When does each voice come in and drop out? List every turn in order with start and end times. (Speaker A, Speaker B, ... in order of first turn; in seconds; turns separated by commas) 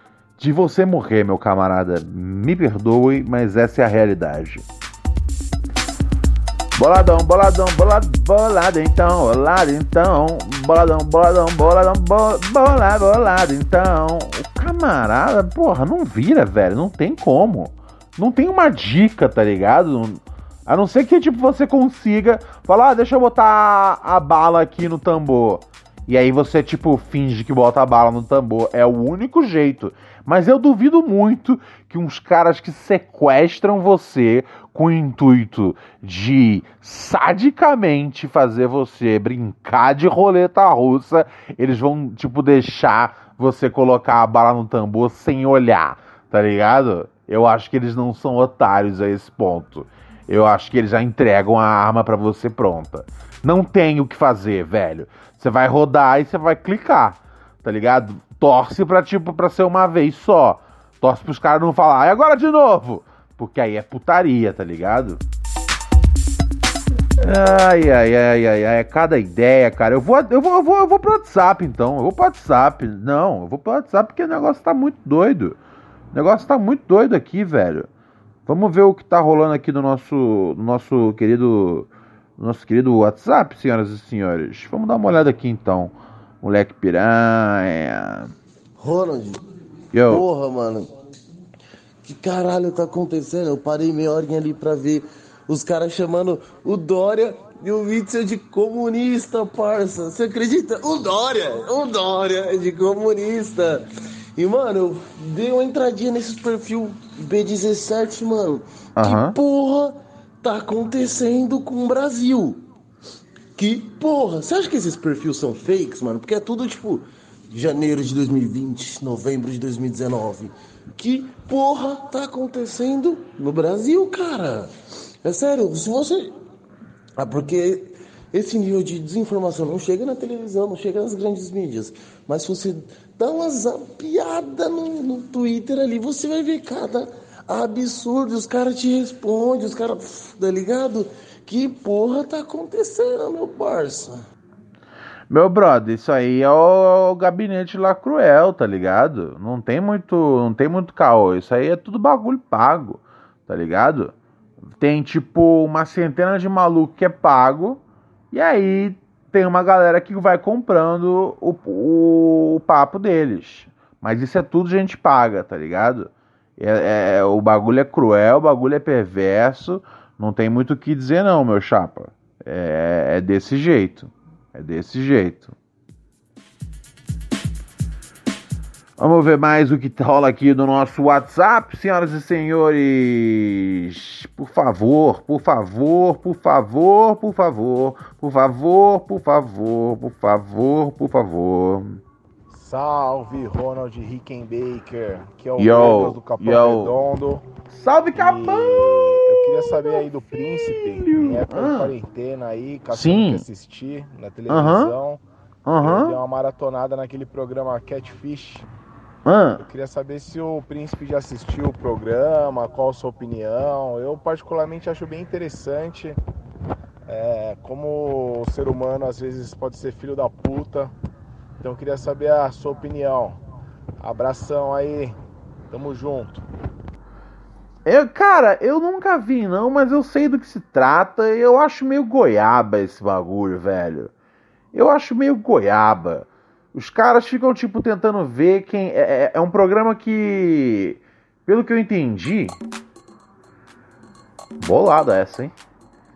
Speaker A: 0.4-4.6, Speaker A: 6.8-65.2, Speaker A: 67.2-75.6, Speaker A: 76.1-77.9, Speaker A: 78.5-88.3, Speaker B: 88.8-89.4, Speaker A: 89.9-90.2, Speaker B: 90.0-90.9, Speaker B: 92.0-112.6, Speaker A: 109.0-109.3, Speaker B: 113.5-126.3, Speaker B: 127.2-144.2, Speaker A: 145.3-154.1, Speaker A: 154.8-175.5, Speaker A: 179.0-192.0, Speaker C: 192.5-197.4, Speaker A: 195.6-197.0, Speaker A: 197.7-201.9, Speaker C: 198.2-205.2, Speaker A: 202.9-203.4, Speaker A: 204.5-204.9, Speaker A: 205.7-206.2, Speaker C: 205.8-208.7, Speaker A: 209.2-209.6, Speaker C: 209.6-216.2, Speaker C: 217.1-220.9, Speaker C: 221.6-223.4, Speaker C: 224.0-225.2, Speaker C: 225.7-226.4, Speaker A: 227.8-234.1, Speaker A: 234.7-242.6, Speaker A: 244.6-245.5